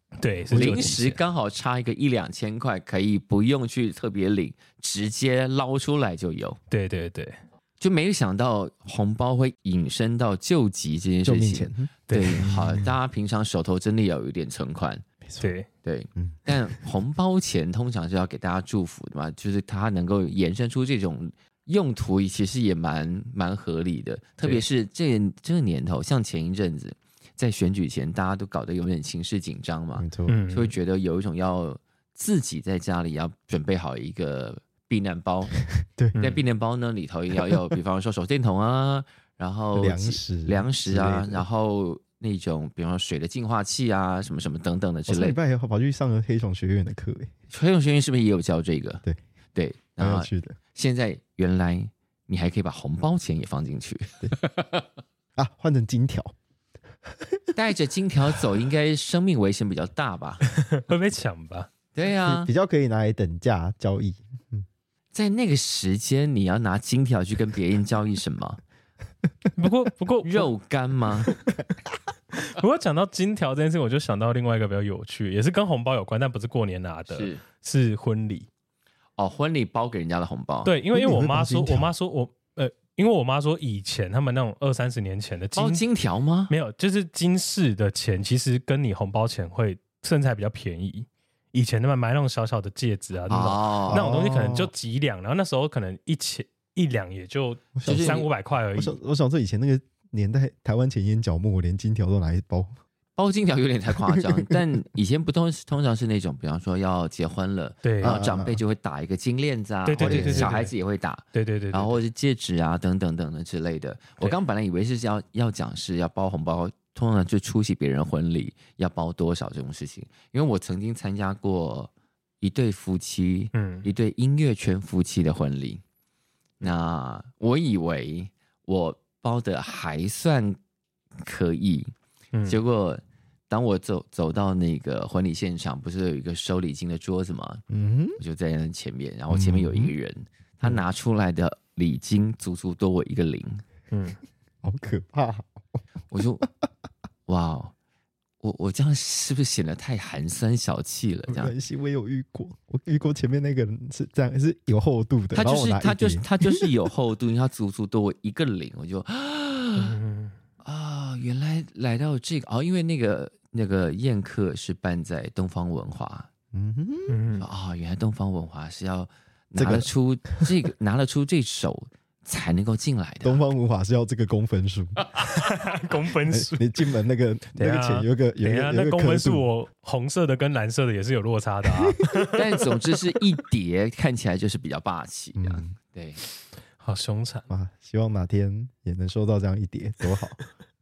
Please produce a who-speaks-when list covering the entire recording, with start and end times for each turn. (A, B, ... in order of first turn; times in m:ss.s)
0:00.2-0:01.1 A
0:00.5-0:01.2 B
0:00.5-0:06.6 C
0:06.7-0:07.4 A
0:07.8-0:15.0 C
0:11.2-0:12.9 B
0:12.1-0:12.5 A
0:15.2-0:15.6 B
0:15.4-0:15.7 A
0:15.8-0:35.5 C
0:16.2-0:16.7 B
0:29.9-0:30.4 B
0:30.2-0:30.7 A
0:35.8-0:36.2 B
0:36.1-0:36.4 A
0:36.2-0:45.4 C
0:39.7-0:41.4 B
0:45.1-0:47.3 B
0:47.5-0:54.8 C
0:50.0-0:50.6 B
0:55.4-0:56.3 B
0:57.5-1:00.4 C
1:00.4-1:01.7 A
1:01.9-1:02.5 C
1:02.2-1:04.6 B
1:05.1-1:08.6 C
1:09.5-1:10.5 A
1:10.2-1:11.3 C
1:12.3-1:18.5 A
1:17.1-1:17.4 C
1:19.2-1:20.7 C
1:20.6-1:25.8 A
1:20.9-1:21.9 B
1:25.5-1:26.5 C
1:26.5-1:39.0 A
1:33.3-1:34.1 C
1:33.9-1:34.7 B
1:37.8-1:42.7 B
1:37.8-1:38.3 C
1:43.2-2:05.8 C
1:44.1-1:44.5 B
1:47.8-1:48.2 A
1:48.0-1:48.6 B
1:49.8-1:50.7 A
1:50.0-1:50.5 B
1:51.3-1:52.0 A
2:03.5-2:03.9 A
2:06.6-2:10.6 C
2:11.2-2:11.9 C
2:12.4-2:17.6 C
2:17.7-2:18.2 B
2:18.2-2:23.6 C
2:19.3-2:19.9 B
2:23.9-2:24.2 A
2:24.6-2:25.6 B
2:26.1-2:26.5 C
2:27.2-2:27.7 C
2:28.4-2:31.5 C
2:31.3-2:36.7 B
2:35.3-2:40.0 C
2:39.8-2:40.3 A
2:40.6-2:46.3 C
2:46.5-2:47.2 B
2:47.1-2:47.5 A
2:47.4-2:53.4 C
2:49.5-2:49.9 B
2:53.2-2:55.0 B
2:55.2-2:56.7 A
2:56.2-2:59.5 B
2:57.5-3:02.8 A
3:02.3-3:06.2 C
3:05.3-3:05.7 B
3:06.8-3:07.4 A
3:07.5-3:10.4 B